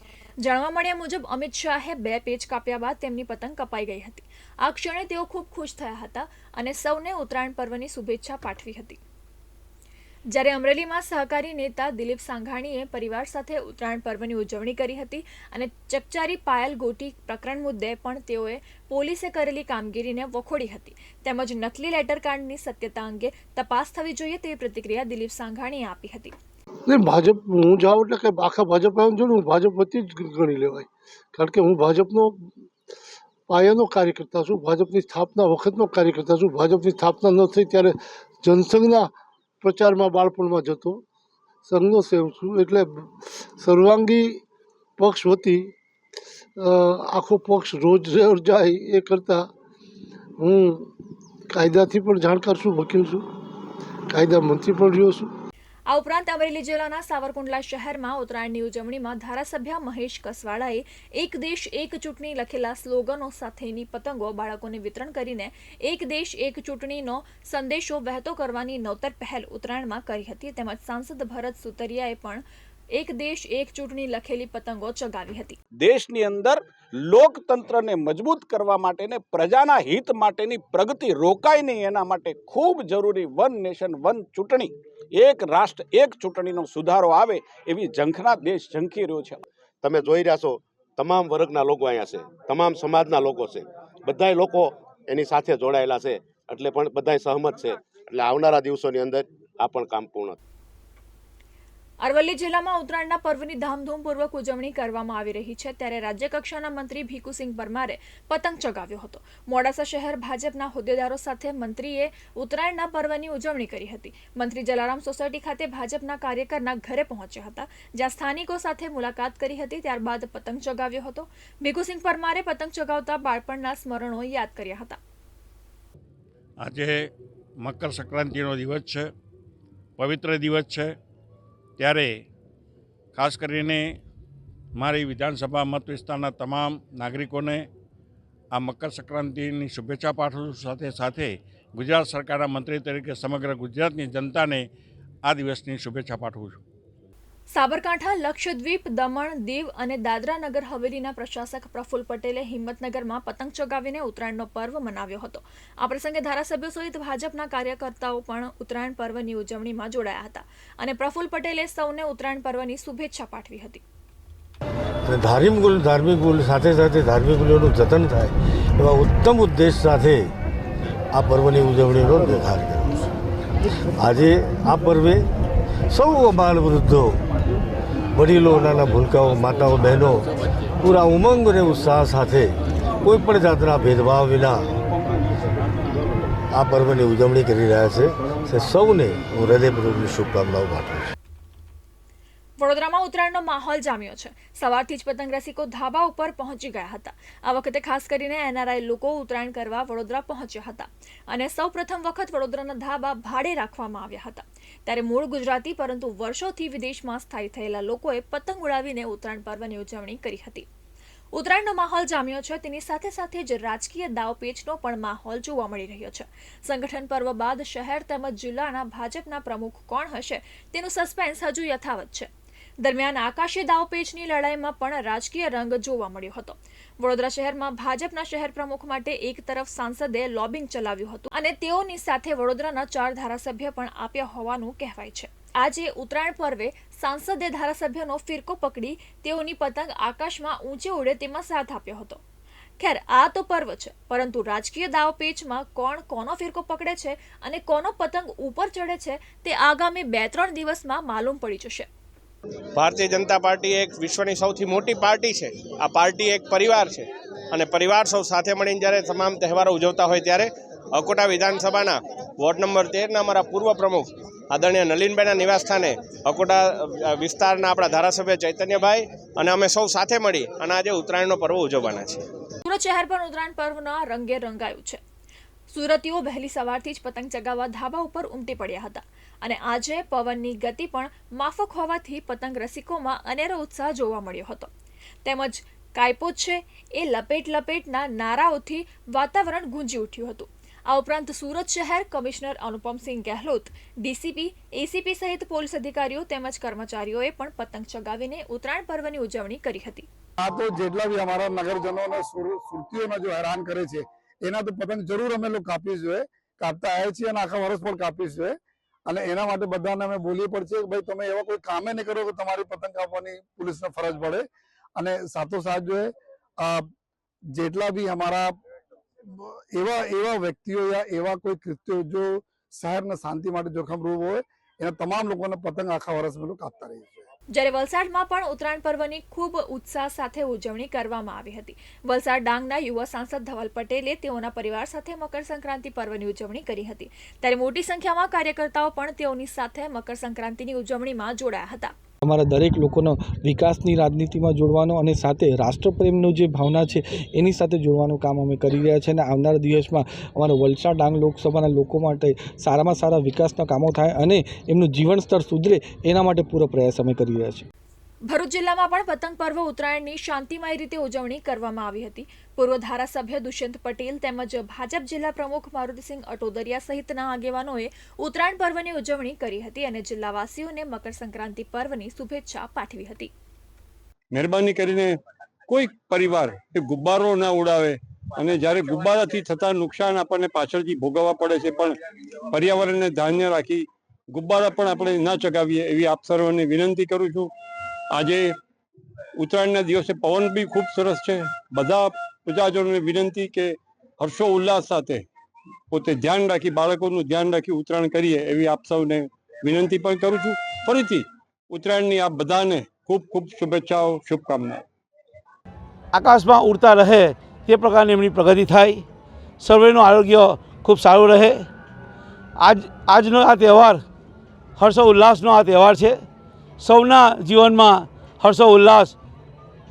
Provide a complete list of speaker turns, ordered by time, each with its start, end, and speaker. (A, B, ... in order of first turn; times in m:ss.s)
0:00.4-0:09.0 A
0:10.3-0:26.3 A
0:26.8-0:32.7 B
0:33.5-0:41.0 B
0:41.6-0:44.4 B
0:45.0-0:45.7 B
0:46.6-0:49.5 B
0:50.4-0:51.0 B
0:51.5-0:53.2 B
0:54.1-0:55.3 B
0:55.9-1:12.4 A
1:12.9-1:15.6 A
1:15.8-1:29.4 C
1:29.8-1:40.4 D
1:42.0-2:05.0 A
2:06.6-2:09.1 E
2:10.0-2:10.9 E
2:11.8-2:12.1 E
2:13.2-2:14.0 E
2:14.8-2:17.6 E
2:18.5-2:24.6 E
2:25.2-2:26.6 E
2:27.5-2:43.8 A
2:45.0-2:50.3 F
2:51.1-2:53.1 F
2:54.0-2:55.3 F
2:55.9-2:57.2 F
2:58.1-3:00.3 F
3:00.8-3:04.7 F
3:06.5-3:11.1 F
3:12.6-3:30.6 A
3:31.3-3:42.3 A
3:42.8-4:02.2 A
4:02.8-4:11.9 A
4:12.7-4:32.3 G
4:32.6-4:35.0 A
4:35.7-4:44.7 A
4:45.2-5:00.1 A
5:00.4-5:08.5 H
5:09.1-5:14.4 H
5:15.0-5:16.8 H
5:17.5-5:18.5 H
5:19.4-5:27.3 H
5:27.5-5:41.9 A
5:42.2-5:57.6 I
5:58.3-6:13.3 A
6:14.3-6:15.2 J
6:15.7-6:21.9 J
6:22.5-6:27.5 J
6:28.1-6:28.5 J
6:29.4-6:35.2 J
6:35.9-6:44.8 J
6:46.1-6:49.0 K
6:49.6-6:51.7 K
6:52.6-6:54.0 K
6:54.8-6:56.3 K
6:56.8-6:59.2 K